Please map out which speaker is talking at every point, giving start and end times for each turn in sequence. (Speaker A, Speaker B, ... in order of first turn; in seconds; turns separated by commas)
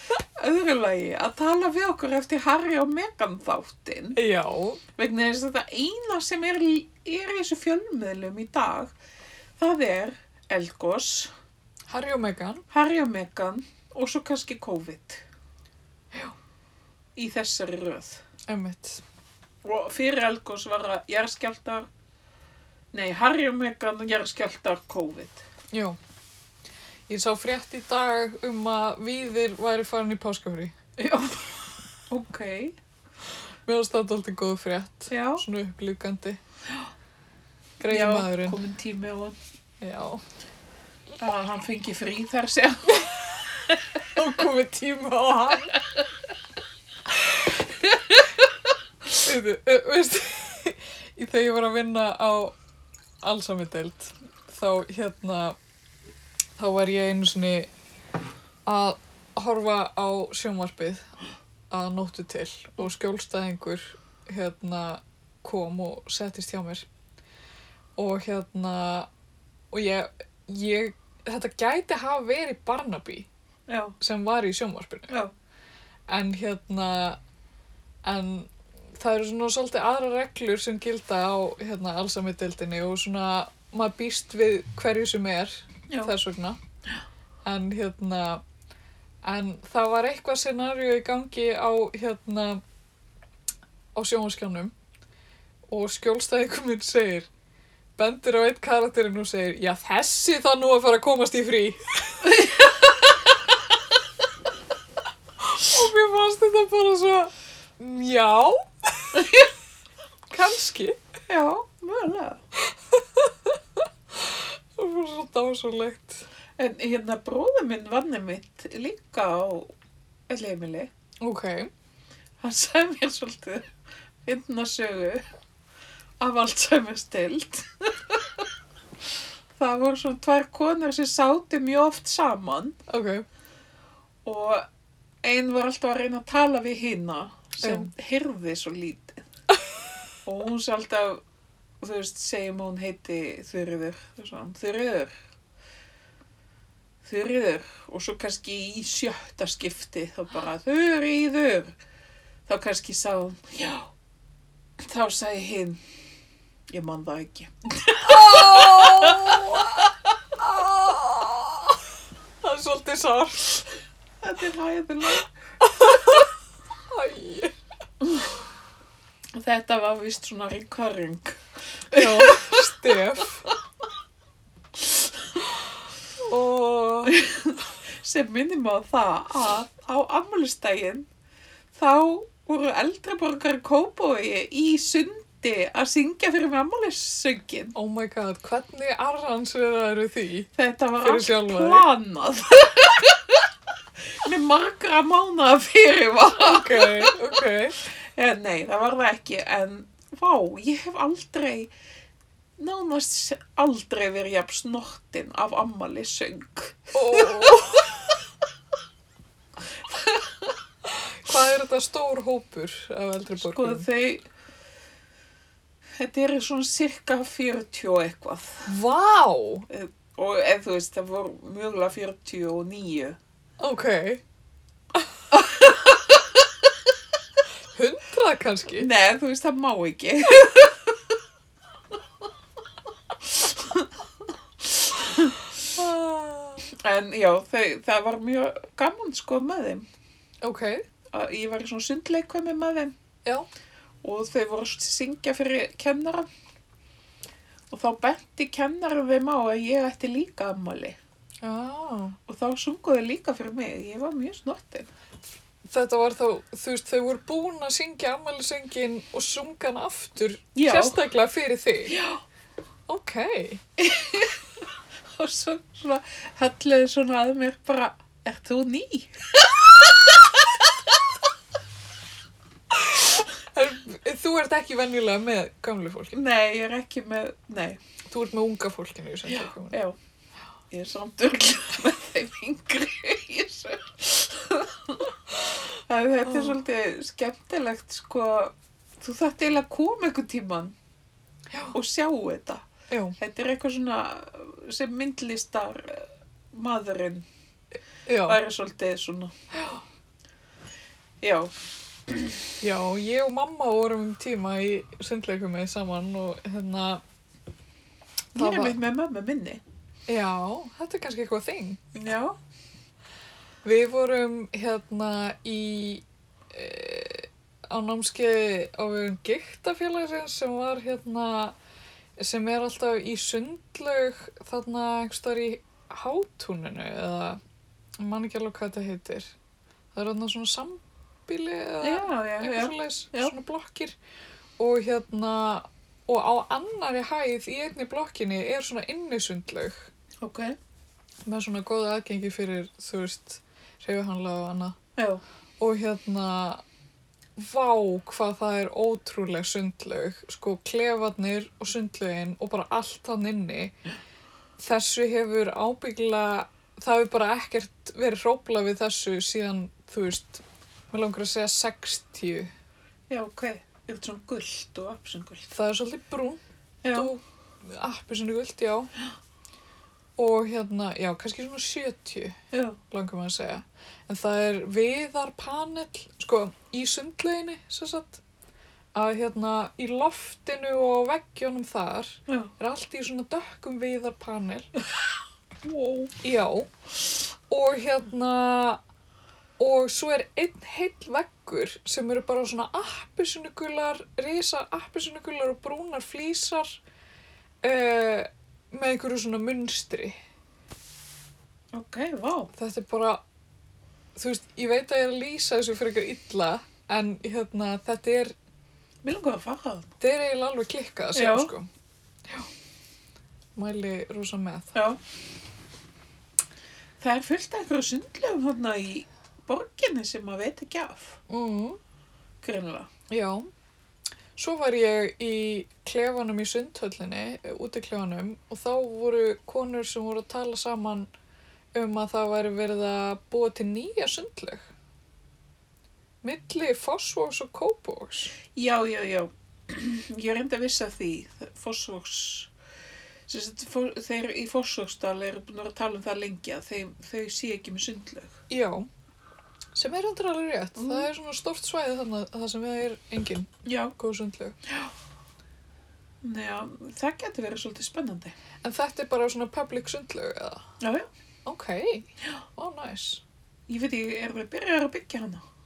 Speaker A: 0.4-4.2, Speaker B: 4.2-4.8, Speaker A: 5.0-8.9, Speaker A: 9.6-11.3, Speaker B: 11.9-12.6, Speaker A: 12.7-15.2, Speaker A: 17.1-18.2, Speaker B: 18.5-19.0, Speaker A: 19.6-21.9, Speaker A: 22.9-25.4, Speaker B: 25.7-26.0, Speaker B: 27.1-31.3, Speaker A: 32.1-32.8, Speaker B: 33.6-36.4, Speaker A: 35.1-35.4, Speaker B: 37.8-38.6, Speaker A: 37.9-39.4, Speaker B: 39.8-40.2, Speaker A: 41.2-43.1, Speaker B: 44.0-45.7, Speaker B: 47.2-47.5, Speaker B: 49.1-52.6, Speaker B: 53.2-55.6, Speaker B: 56.6-57.7, Speaker B: 58.6-61.1, Speaker B: 61.7-66.9, Speaker B: 68.0-69.1, Speaker B: 69.7-73.3, Speaker A: 73.7-74.0, Speaker B: 74.0-75.1, Speaker B: 76.1-77.2, Speaker B: 78.0-86.6, Speaker B: 87.4-88.4, Speaker B: 89.2-92.6, Speaker B: 94.0-94.7, Speaker B: 95.7-97.3, Speaker B: 98.0-102.5, Speaker B: 105.4-109.3, Speaker B: 110.3-111.0, Speaker A: 111.3-112.4, Speaker B: 112.7-116.3, Speaker A: 116.6-119.7, Speaker A: 120.3-120.9, Speaker B: 121.2-121.7, Speaker A: 122.4-123.7, Speaker A: 124.2-125.2, Speaker A: 126.2-128.4, Speaker A: 129.6-132.8, Speaker B: 132.9-133.2, Speaker A: 134.2-134.7, Speaker A: 135.2-139.2, Speaker B: 137.6-137.9, Speaker A: 140.2-141.2, Speaker A: 141.8-145.2, Speaker A: 147.0-151.8, Speaker A: 152.5-153.9, Speaker A: 154.8-155.8, Speaker A: 156.7-159.6, Speaker B: 158.0-161.8, Speaker B: 162.4-163.6, Speaker A: 164.2-165.3, Speaker B: 165.6-166.2, Speaker B: 166.9-167.5, Speaker A: 169.4-172.6, Speaker B: 171.9-173.5, Speaker B: 176.2-177.2, Speaker A: 177.0-181.1, Speaker A: 181.8-187.8, Speaker B: 187.8-191.9, Speaker A: 190.6-193.4, Speaker A: 194.2-197.1, Speaker B: 196.4-197.8, Speaker A: 198.0-201.7, Speaker A: 202.6-207.6, Speaker B: 206.9-208.0, Speaker A: 209.9-210.2, Speaker B: 210.8-213.9, Speaker A: 213.4-214.2, Speaker A: 216.0-218.7, Speaker B: 218.7-219.7, Speaker A: 219.7-223.2, Speaker B: 223.6-224.2, Speaker A: 225.3-226.4, Speaker B: 227.7-228.9, Speaker A: 228.8-230.9, Speaker A: 233.4-233.9, Speaker A: 234.9-235.4, Speaker B: 235.7-236.7, Speaker A: 236.8-239.9, Speaker B: 240.4-240.8, Speaker A: 241.1-242.9, Speaker A: 244.0-246.3, Speaker A: 247.7-251.0, Speaker B: 251.4-252.2, Speaker A: 252.3-254.9, Speaker B: 255.6-262.0, Speaker A: 260.5-261.0, Speaker A: 261.9-262.2, Speaker B: 262.9-263.6, Speaker A: 263.8-264.4, Speaker A: 265.1-270.6, Speaker B: 272.9-276.2, Speaker A: 276.1-277.8, Speaker B: 278.1-279.8, Speaker A: 279.3-280.0, Speaker A: 280.7-285.2, Speaker A: 285.8-290.8, Speaker B: 286.2-286.6, Speaker A: 291.7-292.6, Speaker B: 292.9-293.2, Speaker A: 293.2-297.2, Speaker B: 298.1-298.4, Speaker A: 298.2-299.3, Speaker A: 301.2-301.5, Speaker B: 302.6-307.0, Speaker A: 308.4-309.6, Speaker B: 308.4-308.8, Speaker B: 310.1-311.8, Speaker A: 311.9-312.4, Speaker B: 313.6-321.6, Speaker B: 322.2-327.4, Speaker B: 328.0-329.3, Speaker B: 329.9-334.0, Speaker A: 331.8-333.3, Speaker B: 334.6-339.9, Speaker A: 340.2-340.6, Speaker B: 341.2-344.8, Speaker A: 345.0-345.2, Speaker B: 345.6-346.6, Speaker B: 347.4-353.8, Speaker B: 354.6-362.5, Speaker A: 363.1-365.5, Speaker B: 365.5-368.9, Speaker A: 366.8-367.1, Speaker B: 370.2-372.4, Speaker A: 372.5-372.8, Speaker B: 372.9-378.2, Speaker B: 378.9-384.7, Speaker A: 385.6-386.1, Speaker B: 386.2-386.7, Speaker B: 387.5-388.8, Speaker B: 389.6-396.8, Speaker B: 397.6-400.1, Speaker A: 401.7-402.5, Speaker B: 402.6-403.2, Speaker B: 404.1-408.4, Speaker A: 409.0-409.9, Speaker B: 410.0-411.7, Speaker A: 411.1-411.5, Speaker B: 413.6-414.7, Speaker A: 414.7-415.0, Speaker A: 417.0-421.2, Speaker B: 421.3-421.8, Speaker A: 422.4-422.9, Speaker B: 423.1-423.5, Speaker B: 424.4-431.1, Speaker B: 431.7-434.6, Speaker B: 436.2-438.3, Speaker A: 438.6-442.5, Speaker A: 443.3-448.4, Speaker B: 448.5-448.9, Speaker B: 449.7-454.6, Speaker A: 450.8-451.1, Speaker A: 453.6-453.9, Speaker A: 456.2-458.3, Speaker B: 458.6-460.6, Speaker A: 460.8-461.1, Speaker B: 461.4-463.2, Speaker A: 463.7-465.4